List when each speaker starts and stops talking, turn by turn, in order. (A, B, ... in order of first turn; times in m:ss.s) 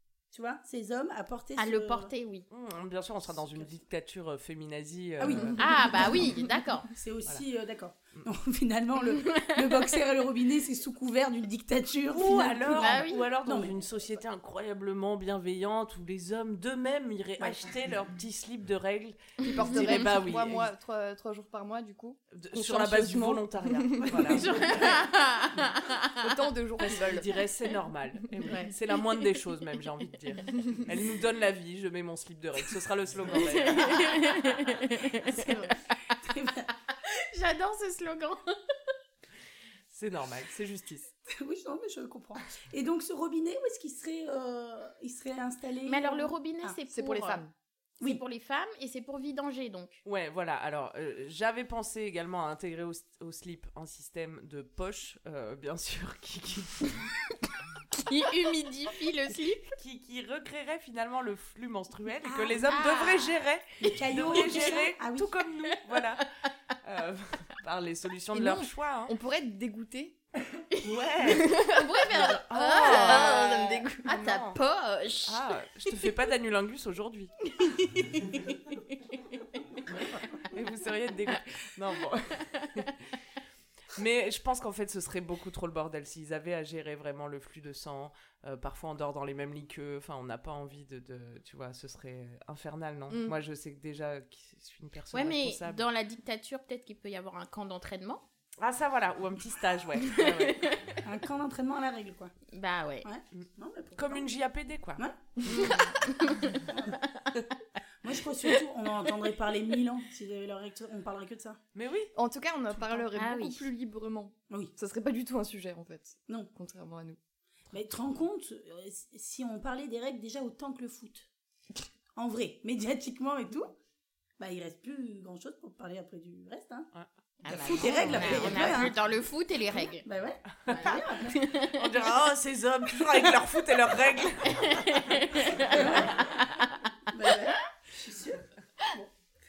0:00.3-0:02.1 A
0:01.6-0:02.4 B
0:02.5-0:06.3 C
0:03.3-0:03.7 A
0:05.2-0:13.7 A
0:05.6-0:06.9 B
0:09.2-0:09.9 B
0:12.1-0:20.7 C
0:12.8-0:13.2 B
0:19.4-0:24.4 D
0:22.3-0:24.9 C
0:24.1-0:24.7 A
0:24.4-0:26.2 B
0:26.2-0:27.3 D
0:26.8-0:34.2 C
0:28.4-0:28.7 A
0:33.5-0:36.1 B
0:35.2-0:36.7 A
0:36.9-0:38.4 B
0:39.9-0:41.1 C
0:41.3-0:46.8 A
0:45.8-0:47.4 B
0:46.9-0:47.5 D
0:48.0-0:50.0 B
0:50.0-0:57.1 C
0:58.0-0:59.7 B
0:59.7-1:06.3 C
1:02.2-1:02.6 A
1:02.7-1:03.3 B
1:03.8-1:05.3 A
1:03.9-1:04.8 B
1:06.8-1:09.1 C
1:08.3-1:10.2 D
1:10.8-1:13.4 C
1:11.3-1:15.4 B
1:12.6-1:14.0 D
1:14.0-1:14.6 C
1:15.3-1:17.3 C
1:17.6-1:19.4 B
1:20.4-1:23.0 C
1:23.9-1:35.8 C
1:35.1-1:38.2 B
1:38.6-1:40.7 C
1:40.0-1:40.9 B
1:41.0-1:42.3 A
1:42.5-1:43.1 B
1:43.0-1:44.3 A
1:43.3-1:45.8 C
1:45.0-1:45.7 A
1:45.4-1:47.3 B
1:46.6-1:47.0 A
1:48.0-1:51.6 A
1:51.7-1:52.1 C
1:52.1-1:57.2 D
1:53.1-1:53.7 B
1:57.7-2:01.3 A
2:02.2-2:03.7 A
2:04.4-2:06.9 A
2:07.4-2:10.0 B
2:07.4-2:08.9 A
2:07.9-2:08.8 C
2:09.7-2:11.4 A
2:10.7-2:11.8 B
2:11.6-2:16.1 C
2:14.4-2:16.8 B
2:15.6-2:16.2 A
2:17.1-2:19.1 A